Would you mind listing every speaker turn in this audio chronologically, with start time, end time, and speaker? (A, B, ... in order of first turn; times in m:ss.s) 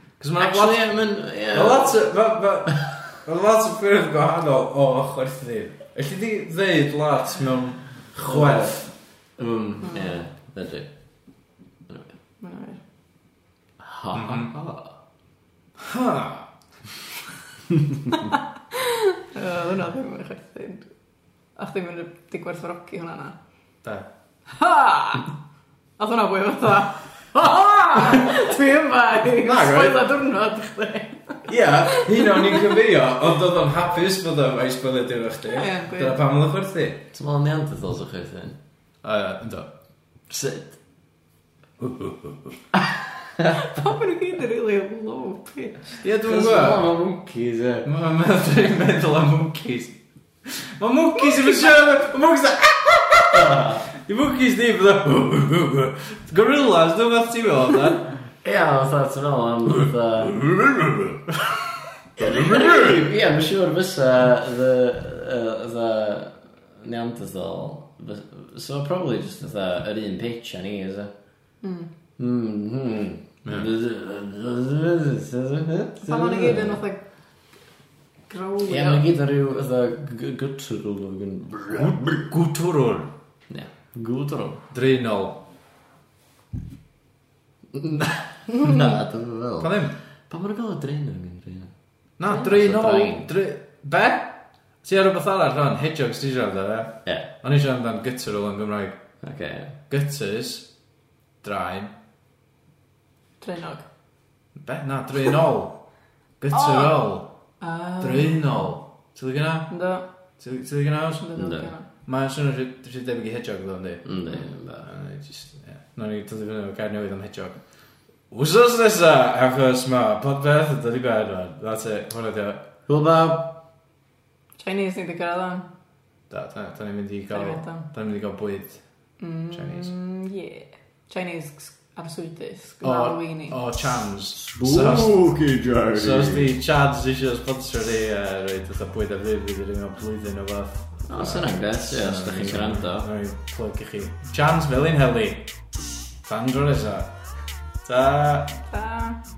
0:00.2-0:00.8 A
0:00.4-0:02.0 B
0:01.5-0:08.9 A
0:08.3-0:10.9 B
0:09.8-0:10.1 C
0:11.9-0:12.2 B
0:12.4-0:12.8 C
0:13.8-0:15.0 B
0:14.1-0:14.5 A
0:15.8-0:16.5 A
0:18.7-0:20.9 C
0:21.6-0:23.4 C
0:24.5-0:25.3 C
0:26.0-0:32.6 C
0:29.3-0:30.0 A
0:31.5-0:37.0 A
0:35.5-0:36.2 C
0:37.1-0:38.6 B
0:39.0-0:39.7 A
0:40.3-0:40.7 B
0:41.8-0:42.6 A
0:43.5-0:46.0 C
0:46.0-0:46.9 A
0:46.3-0:47.9 B
0:47.8-0:58.1 A
0:53.3-0:53.9 B
0:58.4-1:00.5 B
1:00.4-1:03.0 A
1:02.2-1:11.1 B
1:11.6-1:11.9 C
1:12.2-1:16.8 B
1:16.1-1:17.0 C
1:18.3-1:19.0 C
1:18.7-1:22.2 B
1:21.7-1:23.1 A
1:23.5-1:24.6 B
1:24.7-1:25.4 A
1:27.7-1:31.7 B
1:29.6-1:30.0 A
1:32.2-1:39.0 A
1:32.3-1:33.3 B
1:39.2-1:39.8 B
1:39.9-1:40.7 A
1:41.4-1:41.9 A
1:43.4-1:43.8 C
1:44.6-1:45.8 A
1:46.4-1:47.3 A
1:46.5-1:47.0 C
1:47.6-1:48.4 C
1:48.0-1:49.7 A
1:49.7-1:50.0 C
1:50.4-1:51.3 A
1:51.2-1:51.9 C
1:51.4-1:51.7 B
1:52.0-1:57.6 A
1:54.0-1:54.9 B
1:58.3-2:02.6 A
2:02.9-2:03.5 B
2:04.6-2:05.7 C
2:06.3-2:08.8 A
2:07.3-2:07.9 C
2:09.2-2:13.6 C
2:09.5-2:09.9 A
2:12.8-2:15.2 A
2:14.4-2:16.5 B
2:15.9-2:25.5 A
2:21.1-2:23.1 B
2:26.2-2:27.1 A
2:27.8-2:28.6 A
2:28.7-2:29.2 C